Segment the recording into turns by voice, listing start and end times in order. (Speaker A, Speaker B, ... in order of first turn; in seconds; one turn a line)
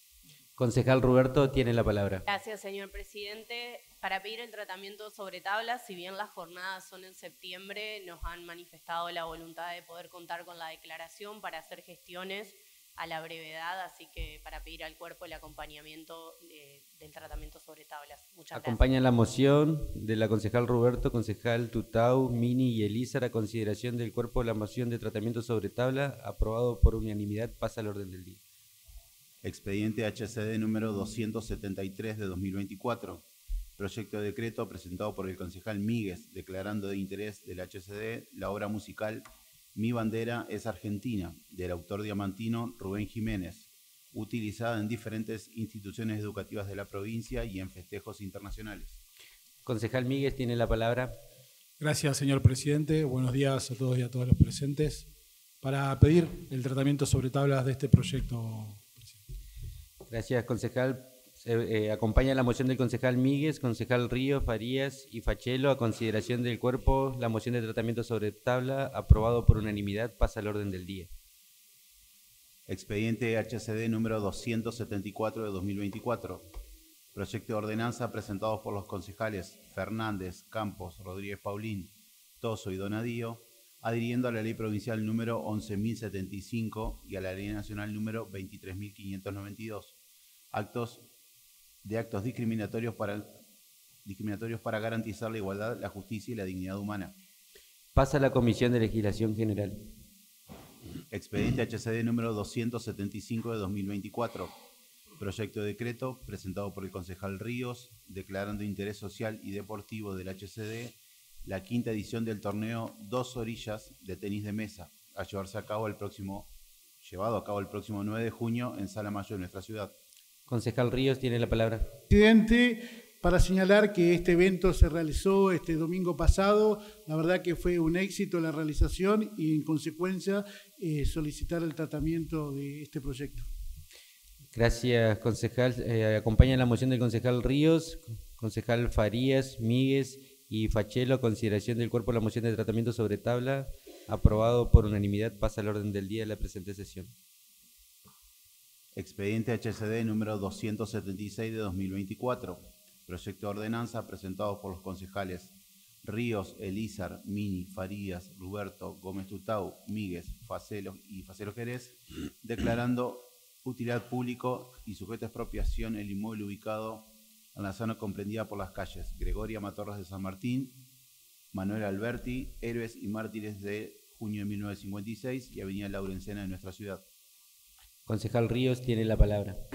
Speaker A: 0.6-2.2
Speaker B: 2.3-18.8
Speaker A: 18.5-28.4
Speaker C: 29.4-33.2
Speaker C: 33.8-49.0
Speaker A: 49.6-51.1
Speaker D: 51.8-55.0
Speaker D: 55.6-58.8
Speaker A: 60.1-71.1
Speaker C: 72.7-76.5
Speaker C: 77.2-90.0
Speaker C: 90.5-91.1
Speaker C: 91.8-93.3
Speaker C: 94.0-97.2
Speaker A: 97.9-99.8
Speaker C: 101.1-104.5
Speaker C: 105.2-116.5
Speaker C: 117.0-119.9
Speaker A: 120.5-121.9
Speaker E: 122.1-133.5
Speaker A: 134.5-147.1
Speaker C: 148.9-170.8
Speaker C: 171.5-177.0
Speaker A: 178.1-179.6